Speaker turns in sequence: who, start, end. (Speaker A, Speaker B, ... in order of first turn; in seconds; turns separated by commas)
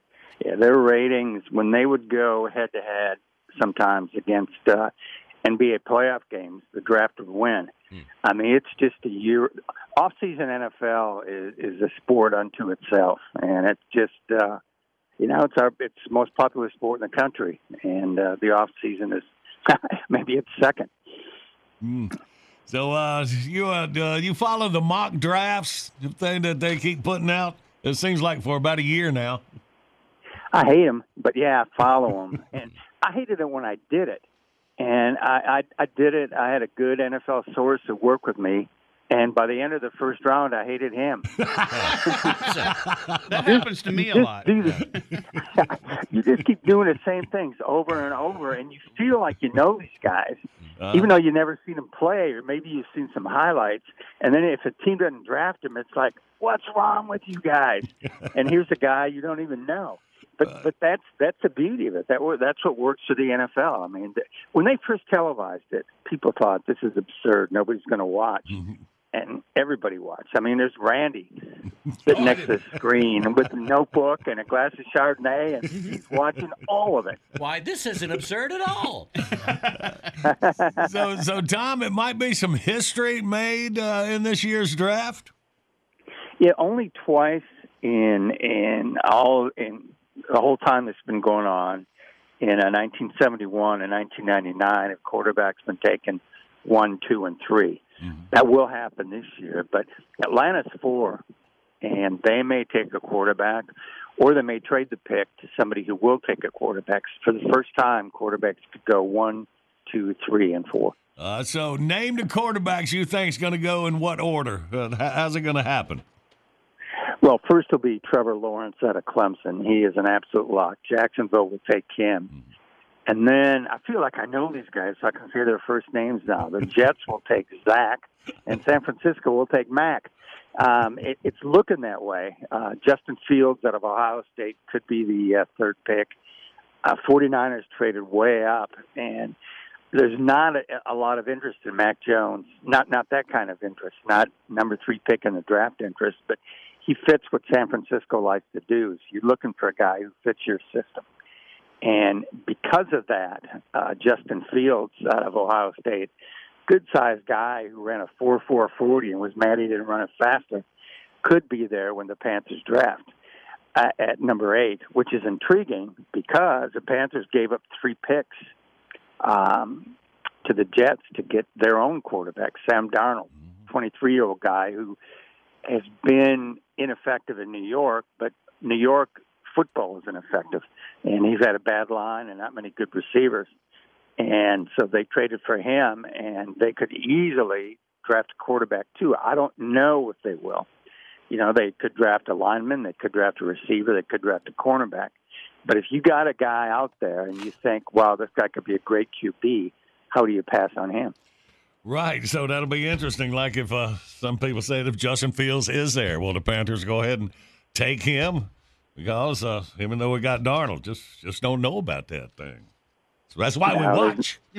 Speaker A: 0.4-4.9, Speaker A: 5.4-7.7, Speaker A: 8.2-14.6, Speaker A: 15.2-20.9, Speaker B: 21.8-22.1, Speaker B: 22.7-29.4, Speaker A: 30.5-34.2, Speaker A: 34.8-41.3, Speaker C: 42.4-42.7, Speaker D: 43.3-45.0, Speaker A: 43.4-44.9, Speaker A: 45.5-68.6, Speaker B: 50.8-51.1, Speaker A: 69.1-71.3, Speaker A: 72.0-77.2, Speaker C: 77.3-79.1, Speaker D: 79.4-79.9, Speaker A: 80.2-81.0, Speaker B: 80.8-85.3, Speaker A: 86.4-91.8, Speaker A: 92.4-101.2, Speaker A: 101.8-110.9, Speaker B: 111.2-116.0, Speaker A: 117.2-122.3, Speaker A: 123.1-136.1, Speaker A: 136.8-139.3, Speaker A: 139.9-151.0, Speaker A: 151.8-156.1, Speaker A: 156.7-160.6, Speaker A: 161.2-163.1, Speaker A: 163.8-168.4, Speaker A: 169.2-169.9, Speaker A: 170.4-175.0, Speaker A: 175.7-183.5, Speaker A: 184.2-190.7, Speaker A: 191.3-195.1, Speaker A: 195.7-201.1, Speaker B: 201.8-212.7, Speaker B: 213.3-214.4, Speaker A: 213.7-214.2